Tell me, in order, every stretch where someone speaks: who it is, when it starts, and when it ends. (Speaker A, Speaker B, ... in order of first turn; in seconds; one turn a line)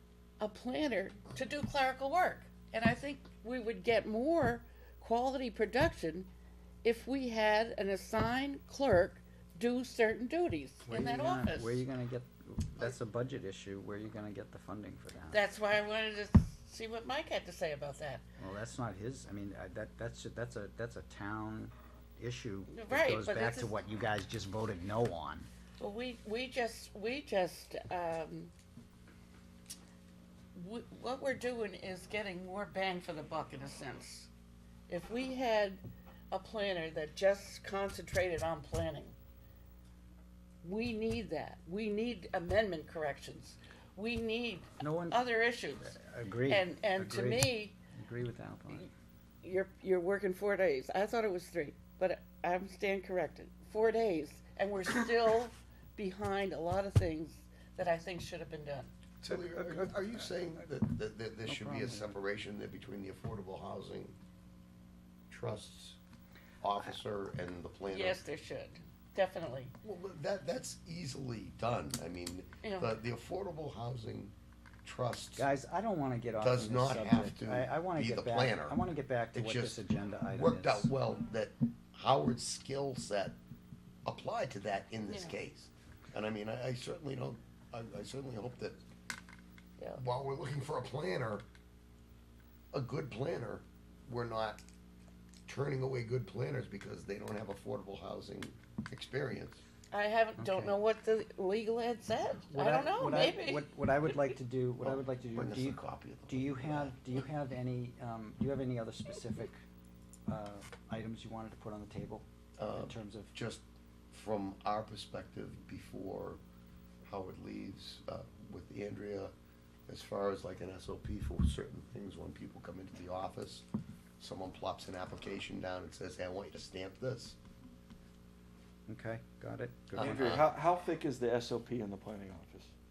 Speaker A: 0.4-6.3
Speaker A: 6.8-11.8
Speaker B: 10.9-15.4
Speaker A: 15.3-18.2
Speaker B: 18.4-25.5
Speaker A: 22.7-23.7
Speaker A: 25.8-28.5
Speaker A: 30.5-34.3
Speaker A: 34.9-39.1
Speaker A: 40.6-47.8
Speaker B: 44.8-45.3
Speaker B: 45.9-48.9
Speaker A: 49.4-58.9
Speaker C: 59.2-64.2
Speaker B: 59.3-59.9
Speaker B: 61.5-62.2
Speaker C: 65.3-66.0
Speaker C: 66.6-68.2
Speaker A: 67.9-69.7
Speaker C: 69.8-74.3
Speaker A: 72.6-72.9
Speaker C: 74.8-75.5
Speaker B: 75.4-80.9
Speaker C: 76.4-78.8
Speaker C: 79.3-83.4
Speaker C: 84.0-88.8
Speaker A: 85.1-85.3
Speaker C: 90.0-91.4
Speaker C: 92.7-94.6
Speaker C: 95.5-99.6
Speaker A: 99.9-104.1
Speaker B: 100.4-100.8
Speaker B: 102.5-109.6
Speaker C: 104.8-107.2
Speaker B: 110.3-113.3
Speaker C: 112.6-116.4
Speaker C: 117.0-119.3
Speaker C: 119.9-123.7
Speaker C: 124.2-127.4
Speaker B: 128.9-130.4
Speaker C: 129.9-130.5
Speaker D: 130.0-132.7